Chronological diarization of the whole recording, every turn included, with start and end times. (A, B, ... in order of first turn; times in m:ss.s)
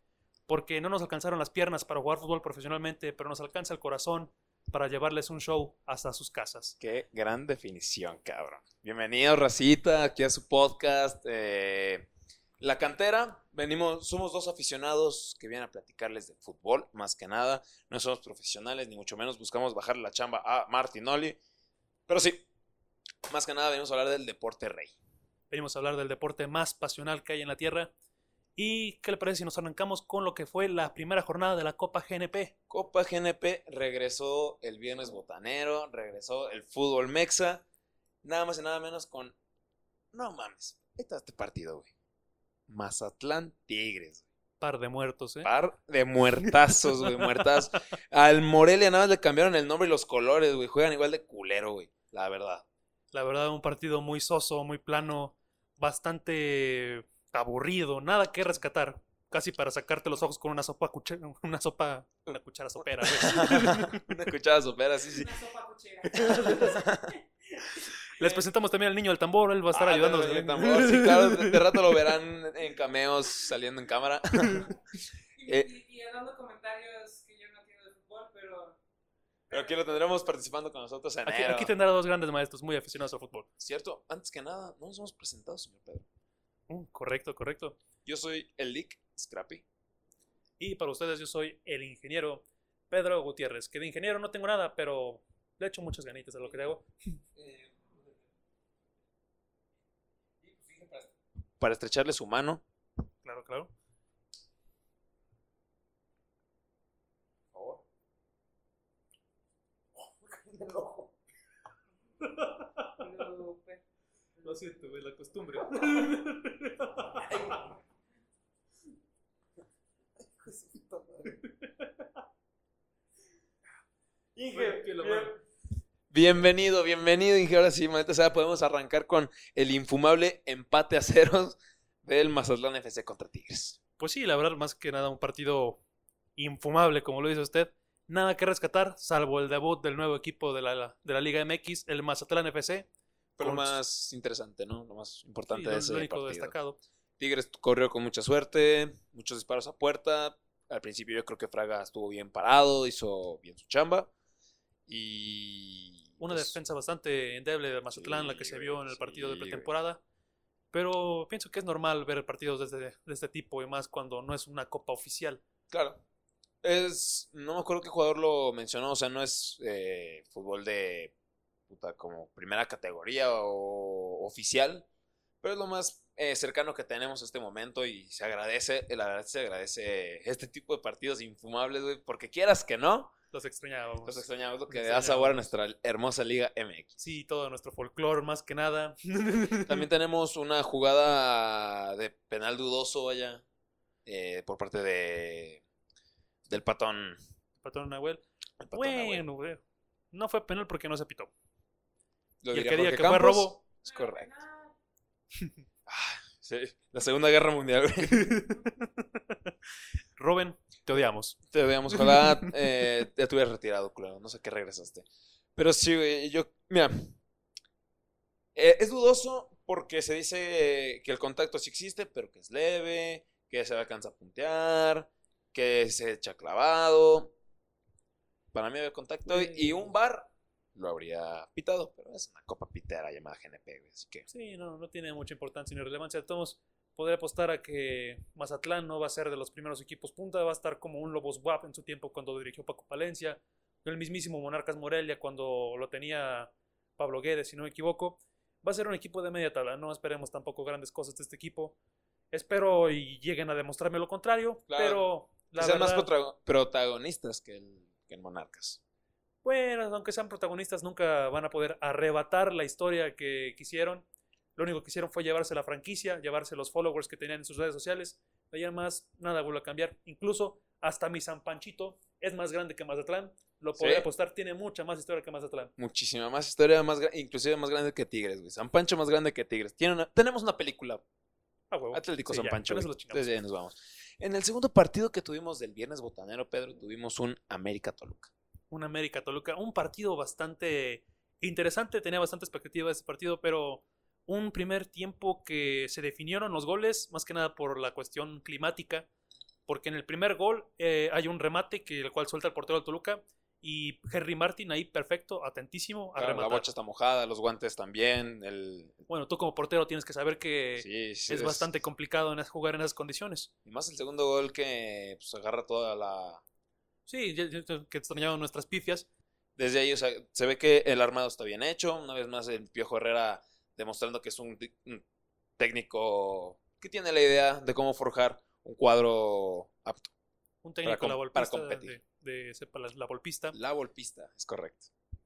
0:00.5-0:06.8 A
0:06.8-0:12.1 B
0:12.6-0:21.4 B
0:22.1-0:22.5 B
0:23.3-0:25.0 B
0:25.5-0:27.9 A
0:28.6-0:32.5 A
0:32.7-0:37.6 B
0:38.2-0:39.4 B
0:40.1-0:41.9 B
0:42.7-0:44.3 B
0:44.6-0:45.5 A
0:45.4-0:52.6 B
0:47.0-0:47.5 A
0:53.1-1:04.1 A
1:03.0-1:05.3 B
1:05.1-1:07.0 C
1:06.1-1:07.2 B
1:06.2-1:06.8 A
1:07.7-1:08.5 B
1:08.2-1:12.0 A
1:09.7-1:14.7 B
1:15.4-1:18.8 C
1:15.5-1:15.7 B
1:19.5-1:19.8 C
1:19.5-1:21.7 B
1:21.2-1:23.5 A
1:23.6-1:26.1 B
1:26.7-1:27.8 A
1:28.0-1:29.6 B
1:30.6-1:37.2 A
1:37.4-1:38.0 B
1:40.4-1:42.6 B
1:43.2-1:43.7 A
1:47.5-1:47.8 B
1:50.2-1:51.1 B
1:52.2-1:53.1 A
1:53.0-1:53.8 C
1:54.4-1:54.7 C
1:54.4-1:57.6 A
1:57.3-1:57.7 C
2:00.4-2:01.4 B
2:01.4-2:01.7 A
2:04.4-2:05.4 B
2:04.5-2:05.4 A
2:06.1-2:13.8 B
2:14.0-2:15.8 A
2:16.4-2:22.9 A
2:23.4-2:26.6 B
2:23.4-2:23.8 A
2:25.5-2:26.8 A
2:27.2-2:34.1 B
2:34.9-2:36.6 B
2:36.2-2:40.0 A
2:37.9-2:39.7 B
2:40.7-2:45.4 A
2:45.7-2:46.0 B
2:46.6-2:51.1 B
2:51.7-2:54.9 B
2:55.4-3:03.1 B
3:03.3-3:05.5 A
3:04.0-3:07.0 B
3:07.0-3:09.8 A
3:09.6-3:13.4 B
3:14.1-3:15.6 B
3:16.5-3:17.2 B
3:17.6-3:21.3 A
3:18.6-3:19.2 B
3:22.4-3:24.3 B
3:22.5-3:23.6 A
3:23.8-3:24.8 C
3:25.9-3:28.5 B
3:28.1-3:29.5 A
3:30.2-3:31.4 A
3:31.5-3:37.2 B
3:31.9-3:32.5 A
3:38.6-3:47.3 B
3:48.5-3:54.3 B
3:49.3-3:49.9 A
3:54.3-4:11.8 A
4:12.3-4:16.1 A
4:14.7-4:18.8 B
4:19.4-4:24.0 A
4:24.6-4:35.7 A
4:33.8-4:34.1 B
4:35.8-4:41.0 B
4:41.7-4:43.4 A
4:41.9-4:48.3 B
4:48.7-4:59.1 A
4:59.7-5:06.7 A
5:06.2-5:09.0 B
5:09.1-5:13.5 A
5:10.8-5:11.7 B
5:13.6-5:16.4 B
5:17.1-5:19.1 A
5:19.6-5:25.0 B
5:25.6-5:30.1 B
5:30.6-5:33.6 A
5:30.8-5:32.0 B
5:33.5-5:34.9 B